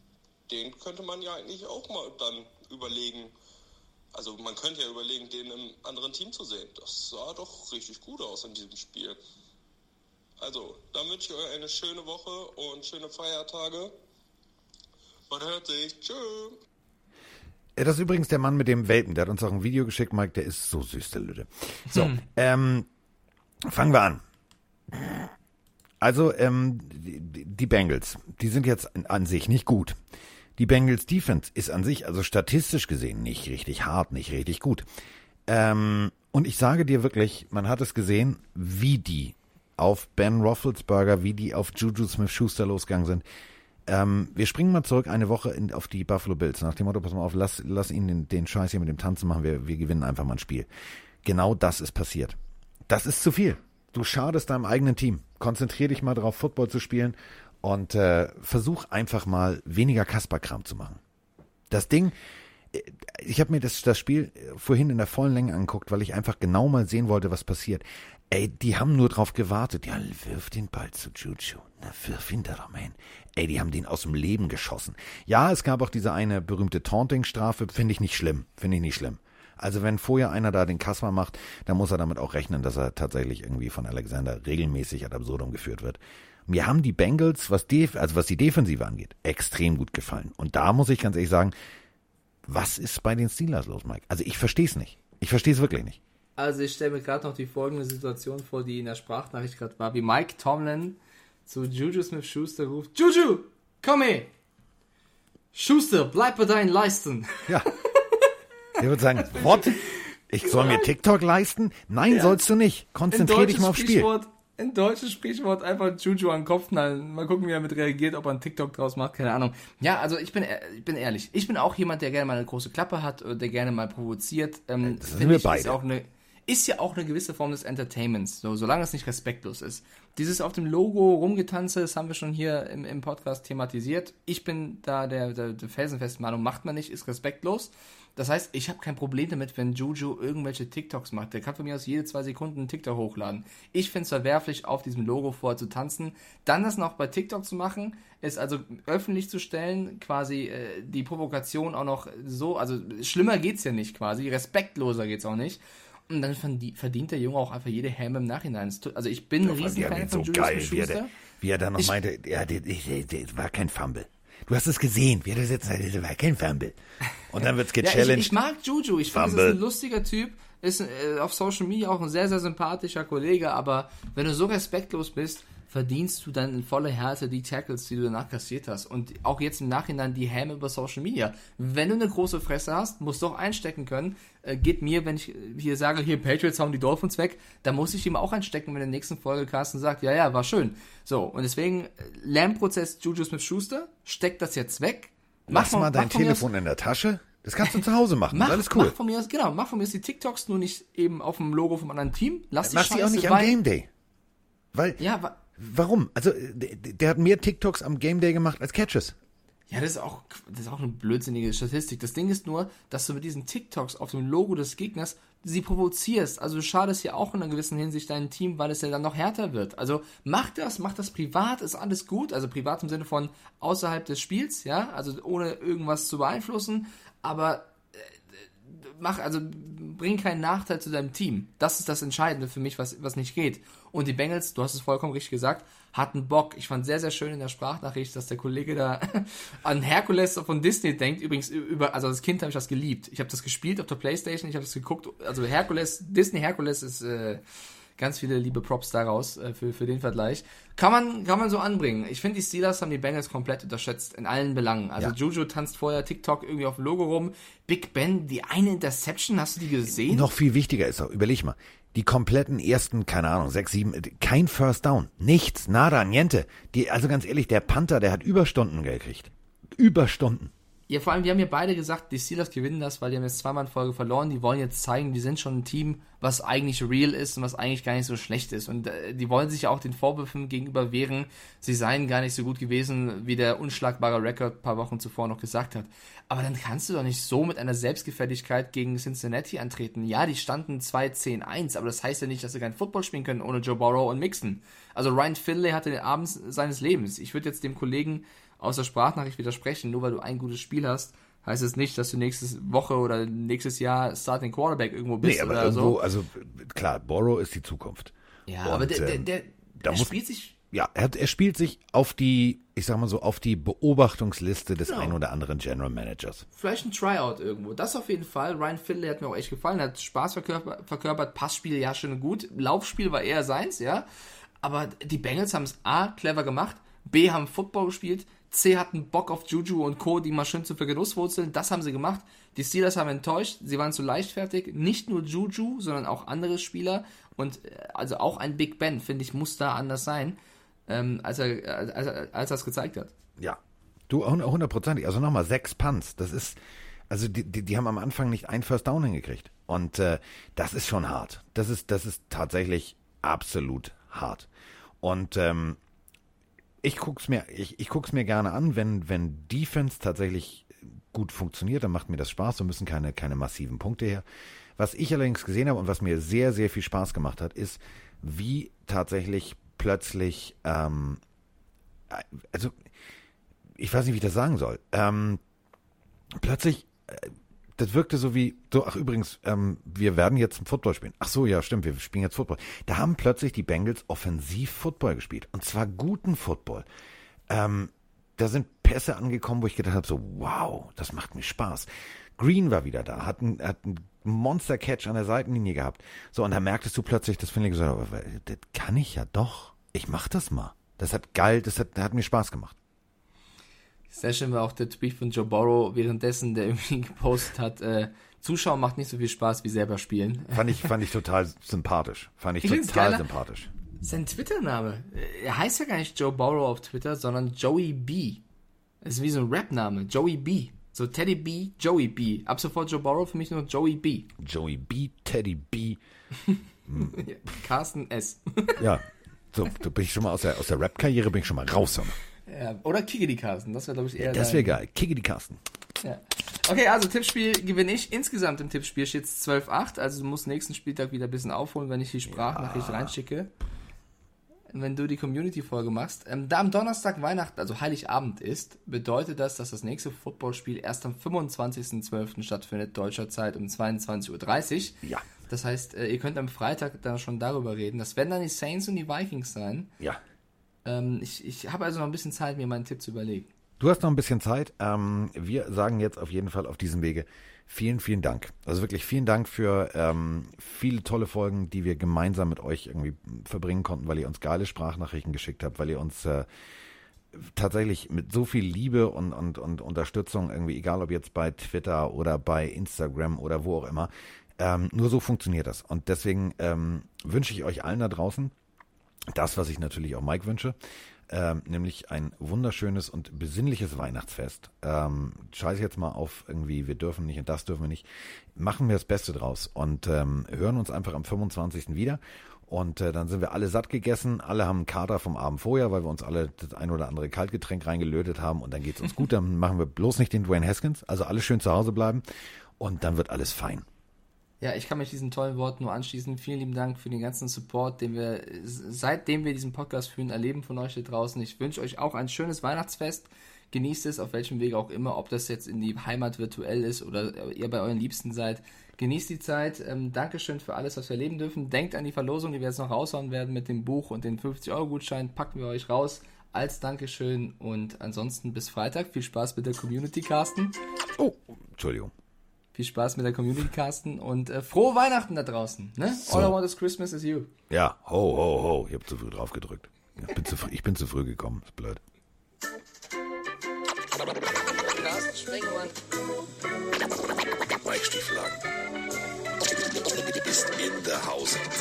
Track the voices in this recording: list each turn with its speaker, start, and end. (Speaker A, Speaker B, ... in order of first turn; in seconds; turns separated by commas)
Speaker A: 0.5-3.3, Speaker A: 4.1-9.2, Speaker A: 10.4-13.9, Speaker A: 15.3-16.6, Speaker B: 17.8-22.9, Speaker B: 23.6-24.2, Speaker B: 24.9-25.3, Speaker B: 26.0-30.0, Speaker B: 30.6-34.9, Speaker B: 35.5-43.2, Speaker B: 43.9-50.7, Speaker B: 51.2-52.4, Speaker B: 52.9-61.0, Speaker B: 61.7-62.1, Speaker B: 62.7-91.5, Speaker B: 92.5-96.0, Speaker C: 96.4-104.3, Speaker C: 105.5-108.2, Speaker B: 108.8-114.1, Speaker C: 109.1-110.9, Speaker C: 112.1-112.4, Speaker C: 113.1-161.1, Speaker B: 124.8-125.8, Speaker B: 159.4-166.8, Speaker B: 167.3-168.3, Speaker C: 167.8-196.5, Speaker B: 169.1-169.6, Speaker B: 195.5-198.9, Speaker C: 198.3-203.6, Speaker B: 202.6-203.9, Speaker B: 204.7-205.0, Speaker C: 205.0-205.4, Speaker B: 205.6-209.2, Speaker C: 209.7-228.1, Speaker C: 228.7-247.4, Speaker C: 248.0-260.3, Speaker B: 260.0-270.5, Speaker C: 270.9-306.0, Speaker B: 305.2-308.1, Speaker C: 308.5-310.6, Speaker B: 308.6-309.2, Speaker B: 309.8-310.1, Speaker B: 310.7-316.4, Speaker C: 314.8-315.1, Speaker C: 316.6-324.1, Speaker C: 324.6-343.1, Speaker B: 343.4-346.6, Speaker B: 347.1-354.5, Speaker B: 355.0-355.8, Speaker B: 356.8-364.2, Speaker B: 364.8-371.2, Speaker B: 372.1-372.7, Speaker B: 373.8-375.4, Speaker B: 376.3-386.9, Speaker B: 387.5-402.8, Speaker C: 404.1-410.9, Speaker B: 410.5-413.7, Speaker C: 412.6-413.3, Speaker C: 414.0-418.4, Speaker C: 419.0-424.3, Speaker B: 424.4-426.0, Speaker C: 426.4-428.9, Speaker B: 426.9-427.2, Speaker B: 428.8-432.1, Speaker C: 432.5-434.8, Speaker B: 434.2-435.6, Speaker C: 436.0-443.5, Speaker B: 442.3-443.1, Speaker C: 444.7-459.9, Speaker C: 460.8-463.5, Speaker B: 463.8-476.5, Speaker B: 477.3-488.5, Speaker B: 489.3-490.8, Speaker B: 491.3-512.2, Speaker B: 512.8-513.8, Speaker C: 514.6-540.8, Speaker B: 541.2-542.1, Speaker C: 542.7-547.5, Speaker B: 546.2-546.5, Speaker B: 547.7-552.0, Speaker C: 554.9-556.0